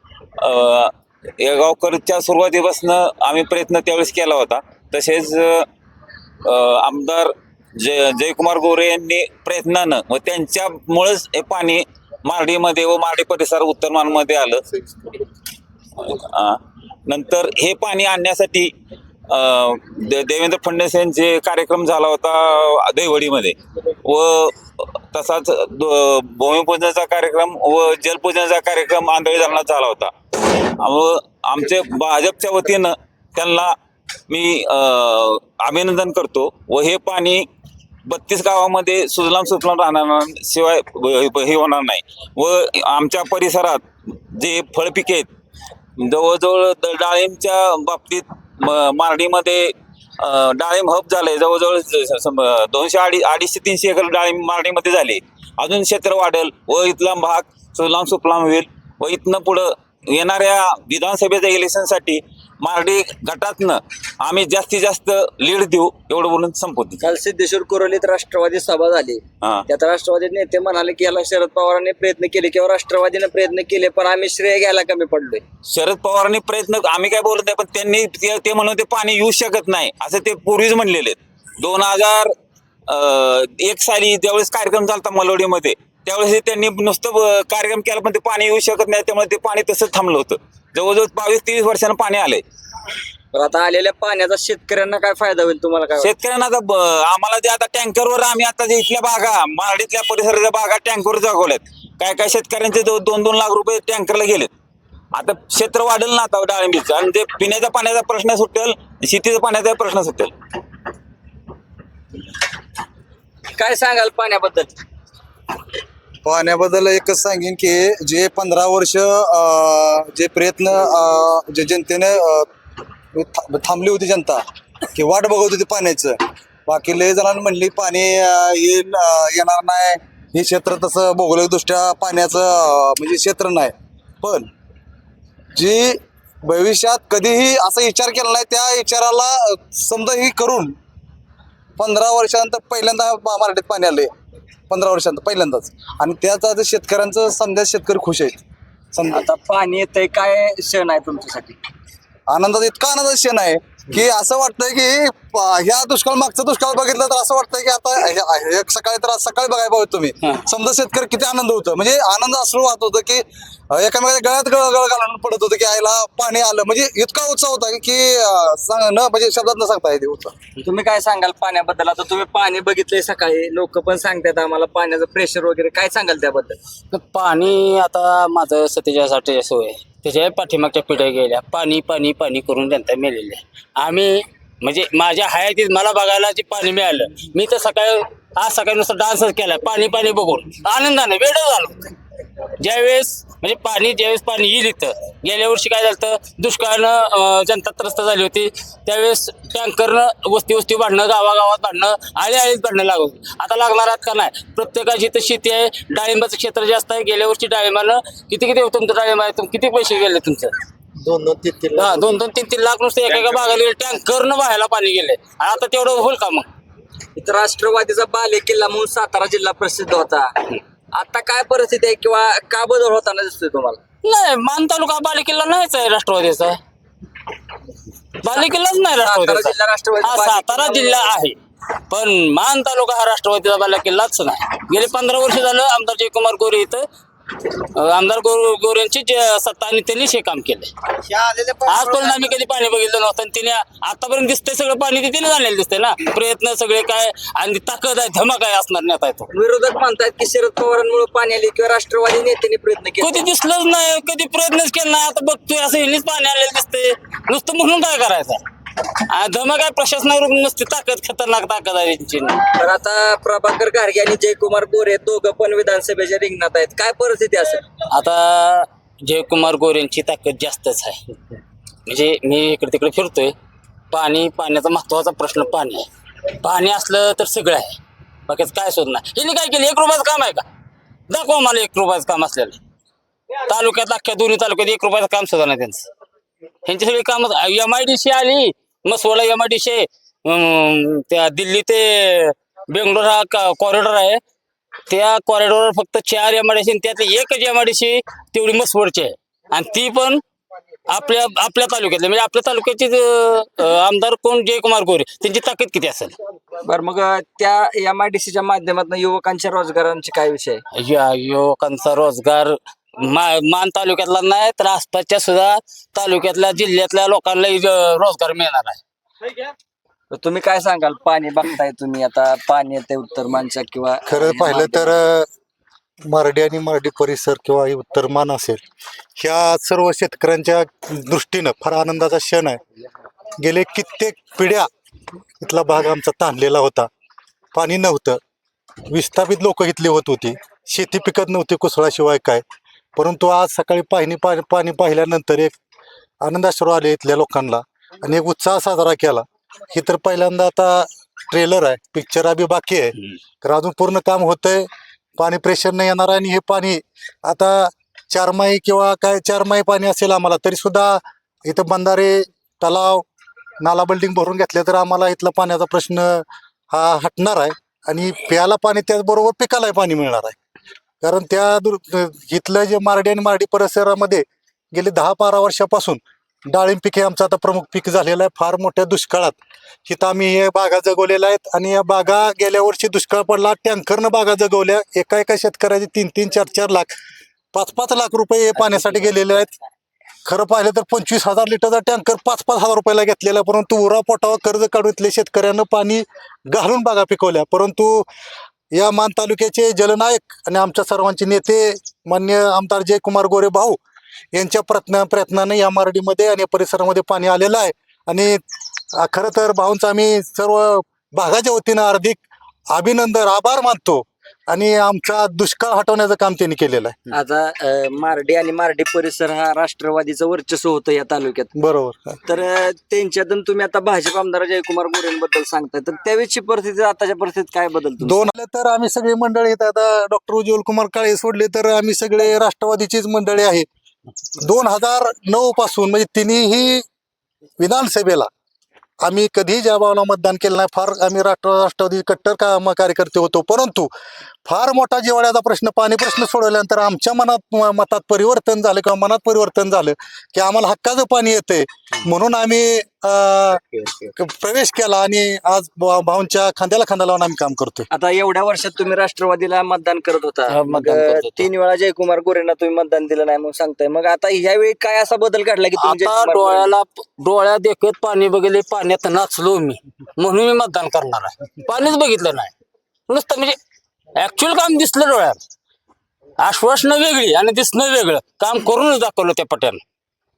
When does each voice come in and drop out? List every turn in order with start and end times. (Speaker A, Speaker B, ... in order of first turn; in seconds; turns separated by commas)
Speaker A: 0.4-5.7, Speaker A: 6.4-14.6, Speaker A: 16.0-18.7, Speaker A: 19.3-33.8, Speaker A: 34.3-37.5, Speaker A: 38.1-45.3, Speaker A: 46.0-67.1, Speaker B: 67.0-75.4, Speaker A: 75.7-82.3, Speaker A: 82.9-92.4, Speaker B: 93.3-96.1, Speaker A: 96.0-104.5, Speaker A: 105.1-110.3, Speaker B: 113.5-114.7, Speaker C: 116.2-122.5, Speaker C: 123.1-124.4, Speaker C: 124.9-134.5, Speaker C: 135.5-140.7, Speaker C: 141.8-144.1, Speaker C: 144.7-148.4, Speaker C: 148.9-149.2, Speaker B: 149.1-151.6, Speaker C: 152.3-170.3, Speaker B: 170.6-176.6, Speaker D: 176.9-191.9, Speaker D: 192.6-210.5, Speaker D: 211.7-216.5, Speaker A: 213.2-213.6, Speaker B: 217.2-223.8, Speaker D: 224.0-226.6, Speaker D: 228.2-231.4, Speaker B: 228.3-231.1, Speaker D: 231.9-236.8, Speaker D: 237.4-240.7, Speaker B: 241.1-241.7, Speaker D: 241.6-249.3, Speaker B: 249.3-253.3, Speaker D: 253.0-258.4, Speaker D: 259.1-262.4, Speaker B: 262.6-267.6, Speaker D: 267.9-271.1, Speaker D: 271.9-273.3, Speaker D: 273.9-275.9, Speaker D: 276.4-280.4, Speaker D: 281.1-282.6, Speaker D: 283.4-285.9, Speaker D: 286.6-294.2, Speaker D: 294.9-300.2, Speaker D: 300.9-306.1, Speaker B: 306.6-310.6, Speaker D: 310.7-318.8, Speaker B: 320.1-325.0, Speaker E: 324.1-325.3, Speaker E: 326.1-328.6, Speaker E: 329.2-332.6, Speaker E: 333.4-334.7, Speaker E: 335.4-336.9, Speaker E: 337.5-338.2, Speaker E: 338.9-342.4, Speaker E: 342.9-345.6, Speaker E: 346.2-354.7, Speaker E: 355.2-363.0, Speaker E: 363.6-370.4, Speaker E: 371.0-379.4, Speaker E: 379.9-386.9, Speaker E: 387.5-389.5, Speaker E: 390.2-398.1, Speaker E: 398.7-403.8, Speaker E: 404.3-408.4, Speaker E: 409.0-417.0, Speaker B: 417.1-421.5, Speaker E: 421.6-422.1, Speaker B: 422.3-428.3, Speaker E: 428.0-433.6, Speaker E: 434.4-436.8, Speaker E: 437.6-438.3, Speaker E: 439.0-443.9, Speaker E: 444.4-453.6, Speaker D: 453.7-454.1, Speaker E: 454.1-457.9, Speaker B: 457.9-466.7, Speaker D: 460.5-461.5, Speaker D: 465.8-472.5, Speaker D: 473.1-473.6, Speaker D: 474.1-475.4, Speaker D: 476.4-479.8